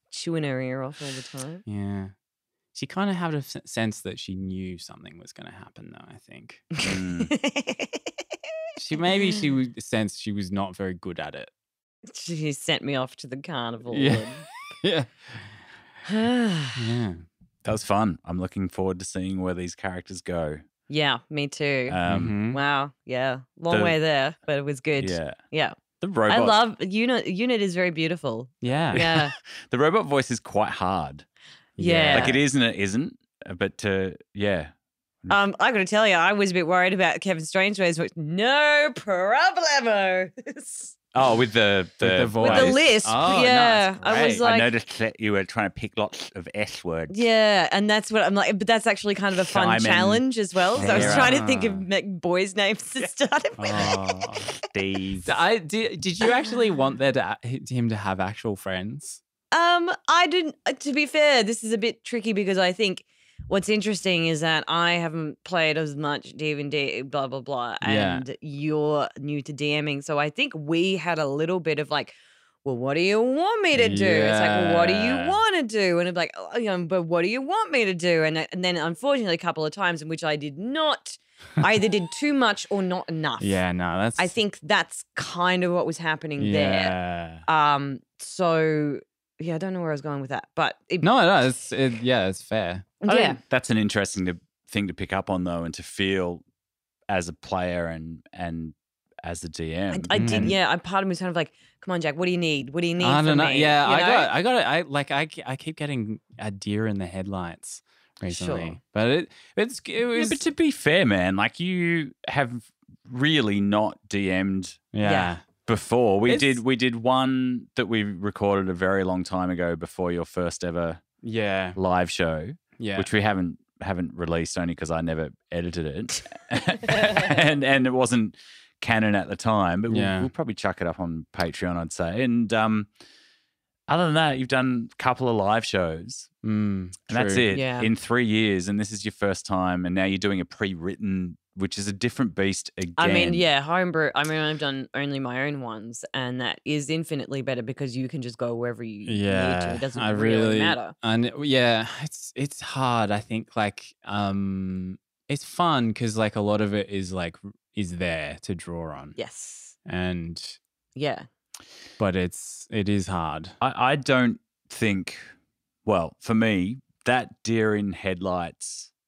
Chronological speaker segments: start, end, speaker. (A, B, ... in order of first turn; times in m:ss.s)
0:00.1-0:01.6 A
0:01.6-0:02.1 B
0:02.7-0:06.7 B
0:06.7-0:08.1 A
0:06.8-0:07.3 C
0:08.8-0:11.5 B
0:09.0-0:09.4 A
0:12.1-0:14.5 A
0:13.9-0:15.6 B
0:16.0-0:16.8 A
0:16.7-0:17.2 B
0:17.6-0:20.6 C
0:20.9-0:22.0 A
0:21.9-0:22.4 C
0:22.0-0:22.6 B
0:22.5-0:25.8 A
0:23.7-0:24.0 C
0:25.0-0:25.4 C
0:26.0-0:26.6 C
0:26.3-0:29.3 A
0:28.6-0:29.1 B
0:28.9-0:31.2 C
0:31.8-0:32.4 B
0:31.8-0:32.4 A
0:32.1-0:34.7 C
0:35.3-0:40.9 A
0:41.1-0:47.2 C
0:42.0-0:44.4 B
0:42.4-0:44.7 A
0:47.1-0:54.2 A
0:49.4-0:50.2 C
0:50.7-0:51.4 C
0:50.8-0:51.9 B
0:53.6-0:54.5 B
0:54.6-0:55.3 C
0:55.2-0:59.2 B
0:59.5-1:23.6 A
1:07.8-1:08.2 B
1:13.7-1:15.4 B
1:23.4-1:24.3 B
1:24.2-1:31.1 A
1:26.4-1:27.4 B
1:31.0-1:32.9 B
1:33.0-1:33.4 A
1:33.0-1:36.4 C
1:37.1-1:40.6 C
1:39.9-1:44.3 A
1:40.1-1:40.6 B
1:43.0-1:50.4 B
1:48.3-1:48.8 A
1:50.1-1:54.8 C
1:54.9-1:55.4 B
1:55.0-1:55.3 A
1:55.6-2:01.0 C
1:56.3-1:56.6 B
2:01.2-2:01.8 B
2:01.7-2:12.9 C
2:02.8-2:03.1 B
2:09.9-2:10.3 B
2:13.9-2:16.3 C
2:16.4-2:17.4 B
2:17.1-2:23.4 C
2:17.5-2:17.9 A
2:23.0-2:30.9 A
2:29.0-2:39.2 B
2:39.2-2:39.7 A
2:39.8-2:40.6 B
2:41.0-2:41.3 A
2:42.0-2:43.6 B
2:43.6-2:45.3 C
2:45.8-2:48.9 C